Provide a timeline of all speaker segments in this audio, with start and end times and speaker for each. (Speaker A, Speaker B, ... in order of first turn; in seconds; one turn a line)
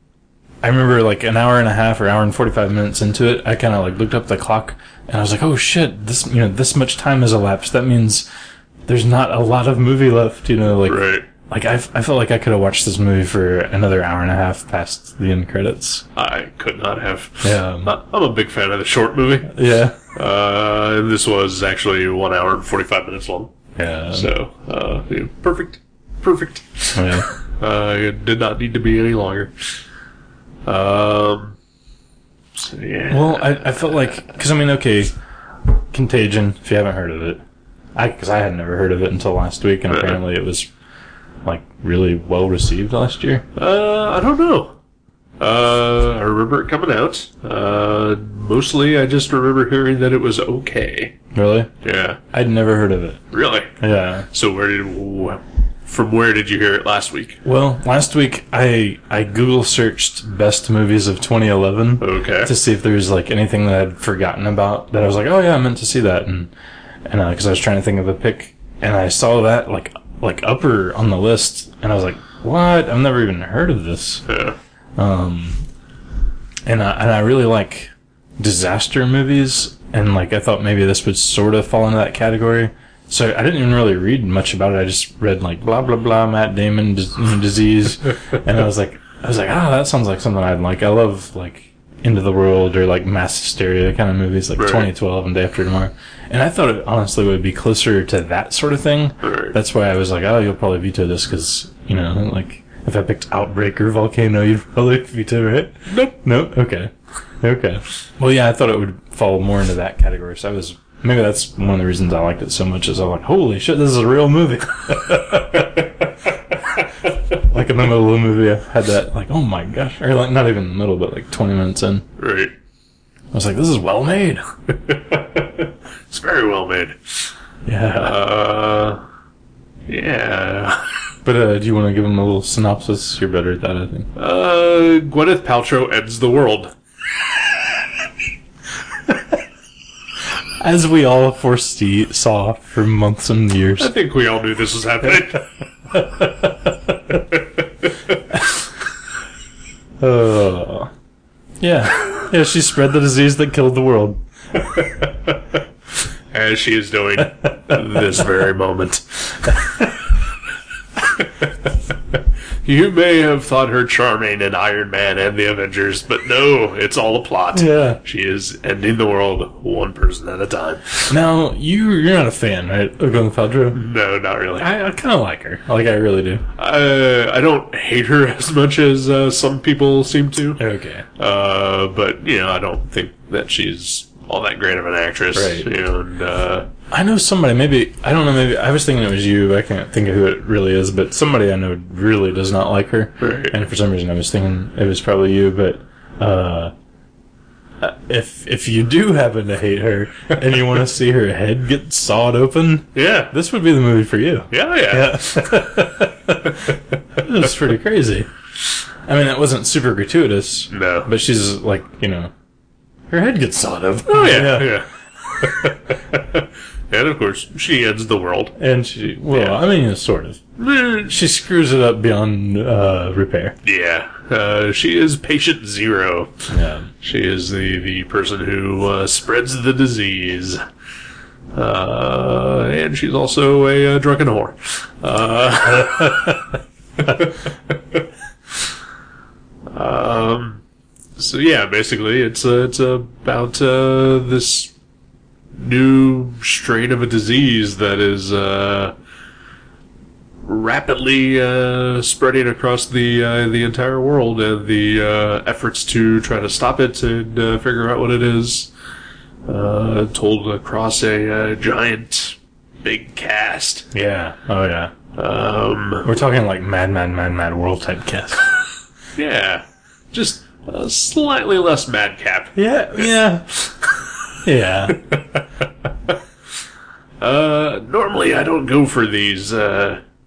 Speaker A: 0.6-8.3
Speaker A: 8.9-16.0
Speaker B: 10.8-11.2
Speaker B: 16.1-19.6
Speaker A: 17.4-17.9
Speaker A: 19.5-19.9
Speaker B: 20.1-23.5
Speaker A: 23.8-24.3
Speaker B: 24.1-29.5
Speaker A: 26.9-27.3
Speaker B: 30.6-31.6
Speaker B: 32.5-34.0
Speaker A: 33.1-35.1
Speaker A: 35.7-37.4
Speaker A: 37.9-40.7
Speaker B: 39.9-40.2
Speaker A: 41.4-43.5
Speaker B: 43.5-44.8
Speaker B: 45.4-51.1
Speaker A: 51.3-51.7
Speaker B: 51.8-52.2
Speaker A: 52.3-53.2
Speaker B: 53.3-53.8
Speaker A: 53.8-54.3
Speaker B: 54.3-57.4
Speaker A: 57.4-66.5
Speaker B: 62.0-62.5
Speaker A: 67.0-74.3
Speaker B: 74.3-74.5
Speaker A: 75.0-75.6
Speaker A: 76.7-122.0
Speaker B: 94.6-94.9
Speaker B: 99.2-99.6
Speaker B: 105.9-106.2
Speaker B: 122.2-122.5
Speaker A: 123.3-124.4
Speaker B: 124.9-127.2
Speaker A: 127.7-128.2
Speaker B: 127.9-129.0
Speaker B: 129.9-130.8
Speaker A: 131.2-134.1
Speaker B: 134.2-136.7
Speaker A: 140.6-143.9
Speaker B: 143.8-145.4
Speaker A: 145.9-147.1
Speaker A: 150.0-150.9
Speaker A: 151.6-154.2
Speaker B: 156.3-159.5
Speaker B: 162.6-171.1
Speaker A: 167.5-168.0
Speaker A: 171.1-173.8
Speaker B: 173.7-174.7
Speaker A: 174.6-176.4
Speaker B: 176.6-180.6
Speaker A: 180.6-181.0
Speaker B: 181.2-186.7
Speaker A: 185.3-185.7
Speaker A: 186.9-196.7
Speaker B: 193.2-193.6
Speaker A: 197.8-208.3
Speaker B: 202.9-203.3
Speaker B: 204.5-205.5
Speaker A: 209.1-212.3
Speaker B: 210.7-211.1
Speaker A: 213.1-214.8
Speaker B: 214.1-218.5
Speaker A: 218.6-220.4
Speaker B: 219.3-219.6
Speaker B: 220.6-221.2
Speaker A: 221.1-223.6
Speaker B: 223.6-226.4
Speaker A: 226.5-226.9
Speaker B: 227.0-230.6
Speaker B: 231.5-236.4
Speaker A: 236.0-236.3
Speaker B: 237.0-237.4
Speaker B: 239.7-240.6
Speaker B: 241.2-244.7
Speaker B: 245.6-248.9
Speaker B: 250.4-258.7
Speaker B: 259.5-263.9
Speaker A: 263.9-264.9
Speaker B: 265.1-266.1
Speaker A: 266.0-268.4
Speaker B: 269.1-274.0
Speaker A: 272.5-273.5
Speaker A: 274.4-275.0
Speaker B: 275.1-275.4
Speaker B: 277.2-280.0